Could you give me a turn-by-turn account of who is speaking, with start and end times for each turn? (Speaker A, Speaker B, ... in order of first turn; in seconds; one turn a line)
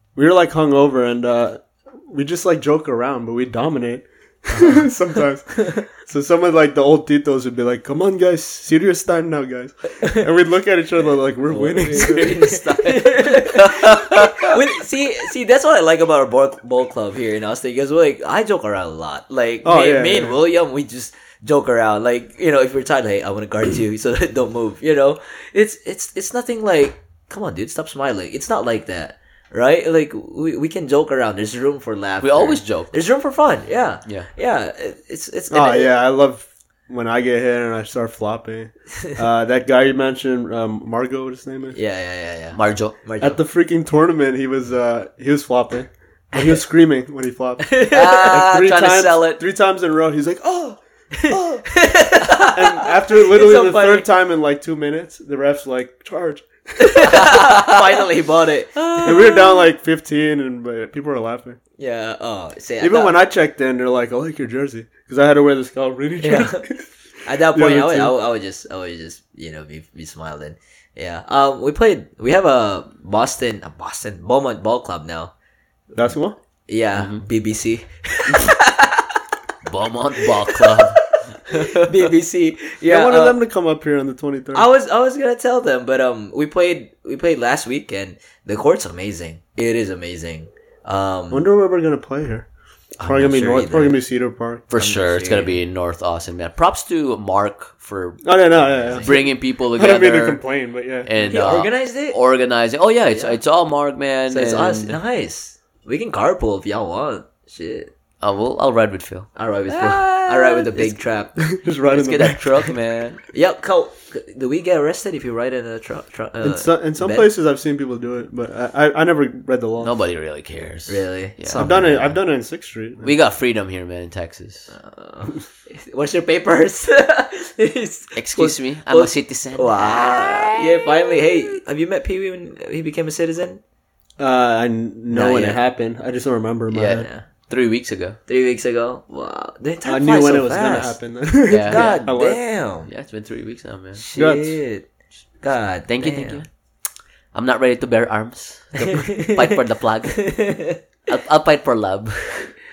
Speaker A: 0.2-12.7
Speaker B: 4.5-4.8
Speaker B: 11.5-35.9
Speaker C: 11.8-14.6
Speaker A: 19.6-20.4
Speaker C: 32.2-33.0
Speaker A: 35.5-41.8
Speaker B: 41.7-43.4
Speaker C: 42.5-43.0
Speaker A: 43.2-57.3
Speaker B: 47.6-48.4
Speaker C: 47.9-49.4
Speaker B: 51.1-54.1
Speaker B: 56.8-59.3
Speaker C: 57.3-58.1
Speaker C: 58.8-59.6
Speaker A: 59.0-61.6
Speaker B: 61.8-63.2
Speaker A: 62.8-66.9
Speaker B: 66.2-66.7
Speaker B: 67.2-75.3
Speaker A: 67.5-68.2
Speaker A: 75.9-76.4
Speaker B: 76.7-79.2
Speaker C: 77.0-77.2
Speaker C: 79.7-81.1
Speaker B: 80.5-83.4
Speaker A: 82.8-84.7
Speaker B: 84.5-91.5
Speaker A: 91.3-92.5
Speaker A: 93.0-94.7
Speaker B: 93.1-94.0
Speaker C: 94.7-100.4
Speaker B: 94.8-95.6
Speaker A: 98.2-101.3
Speaker C: 101.0-105.0
Speaker B: 101.3-102.2
Speaker B: 103.1-103.4
Speaker B: 104.3-107.9
Speaker C: 108.2-110.7
Speaker B: 109.4-111.3
Speaker A: 111.4-112.7
Speaker C: 111.9-113.2
Speaker B: 113.3-117.3
Speaker A: 116.4-119.9
Speaker C: 119.8-122.2
Speaker B: 120.9-121.8
Speaker A: 121.6-123.1
Speaker C: 123.0-124.7
Speaker B: 124.7-133.6
Speaker C: 128.2-130.9
Speaker A: 134.2-137.1
Speaker B: 135.1-135.6
Speaker C: 136.7-138.2
Speaker B: 137.0-137.3
Speaker B: 138.3-141.0
Speaker A: 139.8-142.4
Speaker C: 141.5-141.9
Speaker B: 141.6-142.9
Speaker C: 142.9-144.0
Speaker B: 144.0-144.9
Speaker A: 144.2-144.6
Speaker B: 145.4-146.4
Speaker C: 145.9-146.5
Speaker C: 147.3-150.4
Speaker B: 148.8-150.8
Speaker C: 151.1-152.5